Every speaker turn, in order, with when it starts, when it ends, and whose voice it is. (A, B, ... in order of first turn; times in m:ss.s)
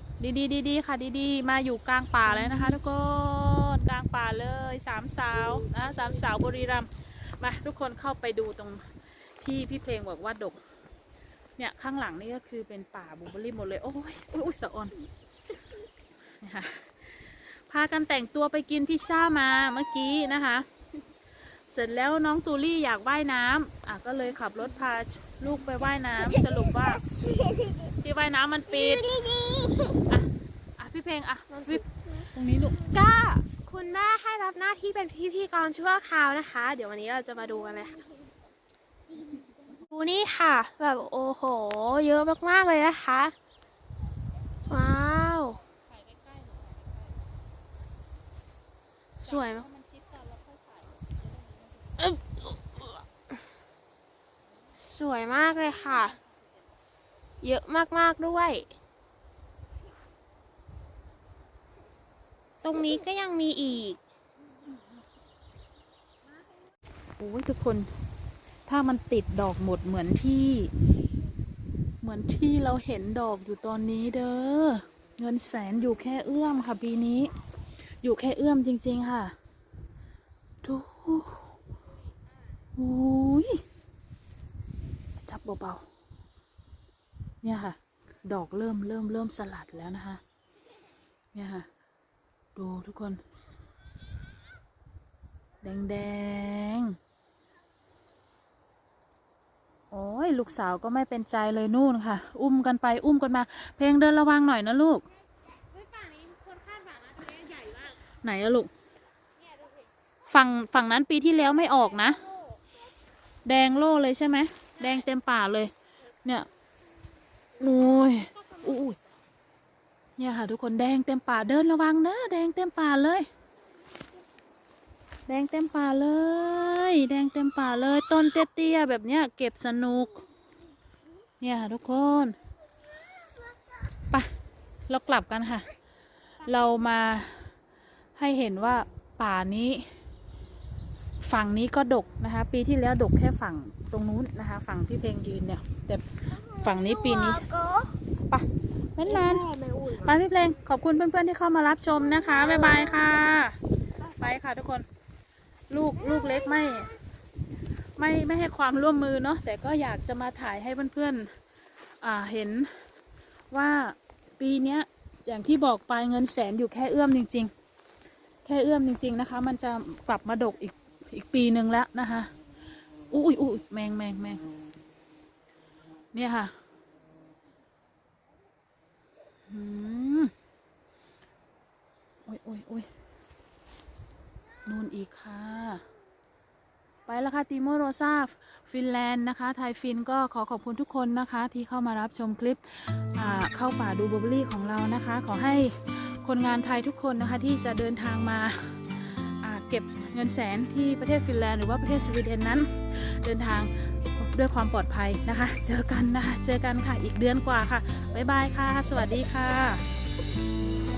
0:00.2-0:08.9 A
0:09.4-0:10.6 A
0:11.6-0:14.9 A
0:16.4-0:20.6 A
0:21.7-0:27.1 A
0:27.4-0:27.7 B
0:27.9-0:29.2 A
0:29.1-0:30.0 B
0:30.0-0:32.9 A
0:32.8-0:38.1 B
0:39.8-0:43.3 B
0:44.6-0:45.6 B
0:46.0-0:46.9 A
0:49.2-0:49.7 B
0:49.2-0:50.7 A
0:52.0-0:53.0 B
0:54.8-0:56.2 B
0:57.4-0:58.7 B
1:02.6-1:04.0 B
1:07.2-1:07.9 A
1:08.7-1:10.7 A
1:12.0-1:17.3 A
1:18.0-1:19.3 A
1:20.6-1:21.5 A
1:22.8-1:23.6 A
1:25.2-1:25.8 A
1:27.4-1:30.2 A
1:31.3-1:31.7 A
1:32.5-1:33.2 A
1:35.6-1:37.0 A
1:39.9-1:45.0 A
1:45.7-1:47.9 B
1:48.2-1:48.7 A
1:50.3-1:52.2 A
1:53.4-1:55.7 A
1:57.6-1:59.0 A
2:00.2-2:03.3 A
2:05.3-2:10.2 A
2:11.4-2:12.4 A
2:14.9-2:15.7 A
2:16.4-2:17.5 A
2:18.2-2:19.8 A
2:21.2-2:27.5 A
2:26.6-2:28.0 B
2:28.3-2:29.4 A
2:29.0-2:30.1 B
2:30.0-2:33.6 A
2:34.2-2:34.8 A
2:35.7-2:36.9 A
2:38.0-2:41.3 A
2:42.0-2:42.7 A
2:43.5-2:47.5 A
2:48.4-2:52.3 A
2:53.1-2:54.4 A
2:56.1-2:56.5 A
2:59.5-3:00.3 A
3:02.2-3:02.9 A
3:04.6-3:05.8 A
3:07.0-3:29.8 A